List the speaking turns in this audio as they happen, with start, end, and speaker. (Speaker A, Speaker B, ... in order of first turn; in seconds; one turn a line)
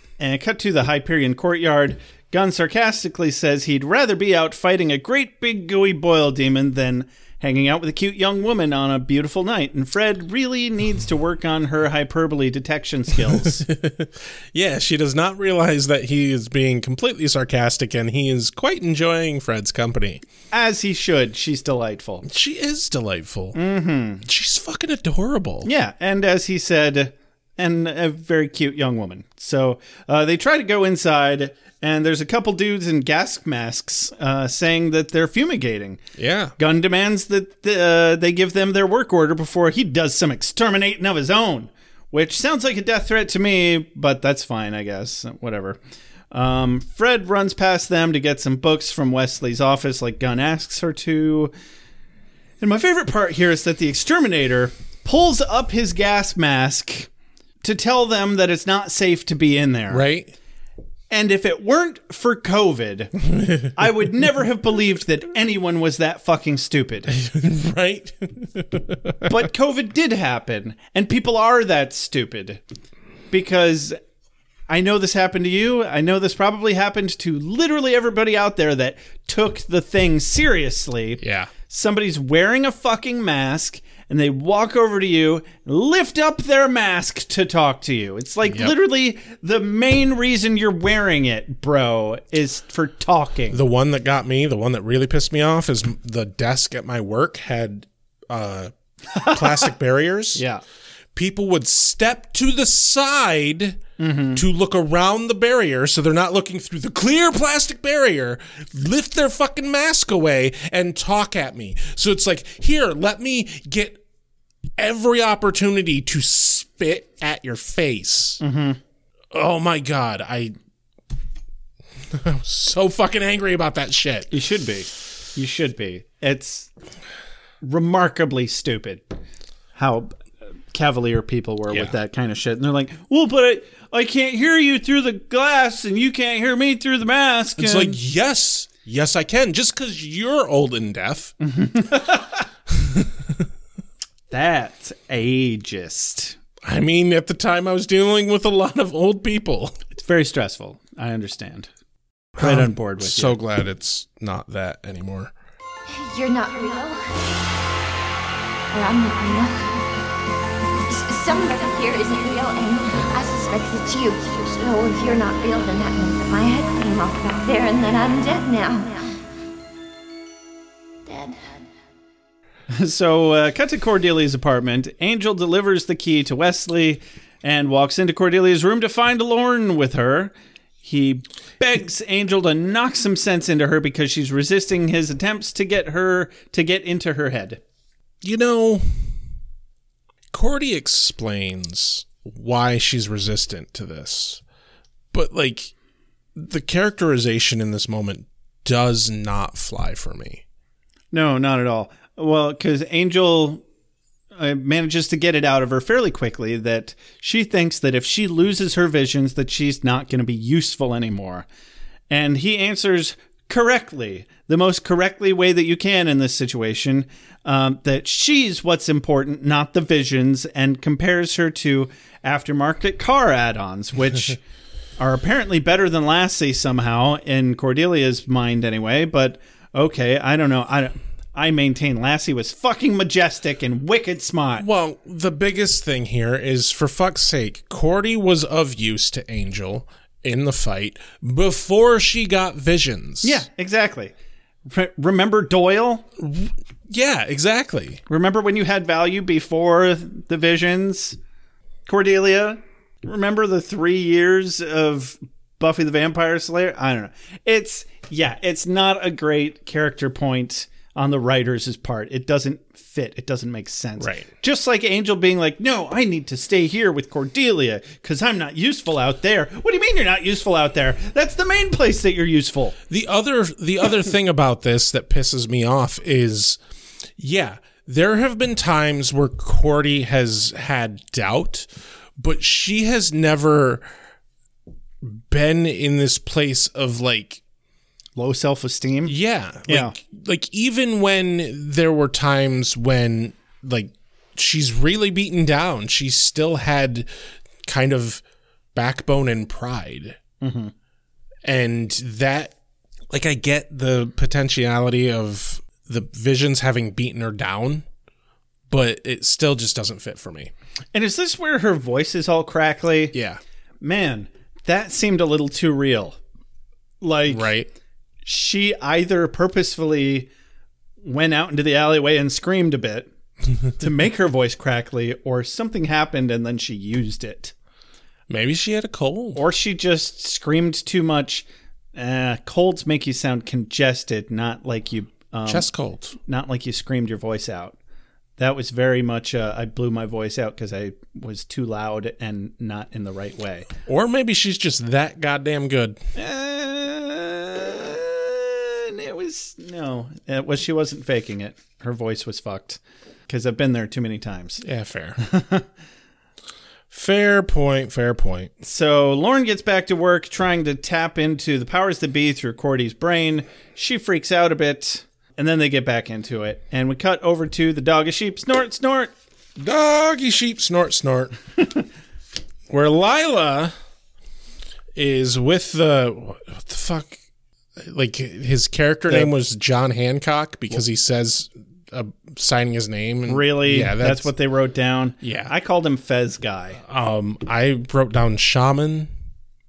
Speaker A: 0.2-13.7
Speaker B: 13.3-20.2
Speaker A: 20.5-22.2
Speaker B: 22.2-23.6
Speaker A: 23.5-24.2
Speaker B: 24.2-25.7
Speaker A: 25.6-36.0
Speaker B: 36.2-36.5
Speaker A: 36.6-45.8
Speaker A: 46.3-51.5
Speaker A: 52.6-57.1
Speaker A: 57.6-60.0
Speaker B: 59.9-60.4
Speaker A: 61.1-67.1
Speaker B: 67.1-69.5
Speaker A: 69.3-72.6
Speaker A: 73.3-74.0
Speaker A: 74.7-93.6
Speaker B: 81.2-81.5
Speaker B: 88.5-88.7
Speaker B: 93.5-98.7
Speaker A: 99.2-99.6
Speaker B: 99.2-100.4
Speaker A: 100.3-100.6
Speaker B: 101.2-103.8
Speaker A: 104.0-104.4
Speaker B: 104.3-114.0
Speaker B: 114.8-118.4
Speaker A: 118.4-118.8
Speaker B: 119.3-120.5
Speaker B: 122.1-124.3
Speaker A: 124.3-126.7
Speaker A: 127.6-129.1
Speaker A: 129.8-130.1
Speaker A: 130.7-138.0
Speaker B: 137.6-141.3
Speaker A: 141.4-142.4
Speaker B: 142.7-143.1
Speaker A: 144.3-146.3
Speaker B: 146.6-149.8
Speaker A: 149.9-151.7
Speaker B: 152.4-155.3
Speaker A: 152.4-153.4
Speaker C: 155.9-157.4
Speaker C: 158.7-159.9
Speaker C: 160.9-169.2
Speaker C: 171.1-171.7
Speaker A: 172.7-187.6
Speaker B: 188.2-189.1
Speaker B: 190.3-194.4
Speaker B: 195.1-195.7
Speaker B: 196.3-200.4
Speaker A: 201.1-203.6
Speaker A: 204.3-211.5
Speaker A: 212.1-224.4
Speaker A: 225.0-234.7
Speaker B: 234.6-243.4
Speaker A: 243.2-244.1
Speaker A: 244.7-246.1
Speaker B: 246.2-248.0
Speaker A: 248.1-251.2
Speaker A: 251.9-272.8
Speaker B: 264.0-264.3
Speaker B: 272.9-276.6
Speaker B: 277.2-283.9
Speaker B: 285.0-287.4
Speaker A: 288.2-289.1
Speaker B: 289.1-297.1
Speaker A: 289.7-290.0
Speaker B: 297.7-298.2
Speaker B: 298.7-300.2
Speaker A: 300.4-300.7
Speaker B: 301.4-302.5
Speaker B: 303.1-307.9
Speaker B: 308.7-310.5
Speaker A: 310.9-313.1
Speaker B: 313.1-313.4
Speaker A: 313.8-316.2
Speaker A: 317.0-317.5
Speaker B: 317.3-317.7
Speaker A: 318.3-320.3
Speaker A: 321.0-323.1
Speaker A: 323.8-327.5
Speaker B: 328.3-329.4
Speaker A: 329.4-335.7
Speaker B: 335.5-336.2
Speaker A: 336.3-337.8
Speaker A: 338.4-343.7
Speaker B: 343.9-346.0
Speaker A: 346.1-354.6
Speaker B: 354.6-355.2
Speaker A: 355.2-355.6
Speaker B: 356.9-358.5
Speaker A: 358.6-369.1
Speaker B: 369.6-371.4
Speaker B: 372.7-373.8
Speaker B: 374.9-377.2
Speaker B: 377.8-384.3
Speaker A: 383.3-386.8
Speaker B: 385.2-385.5
Speaker B: 386.8-389.1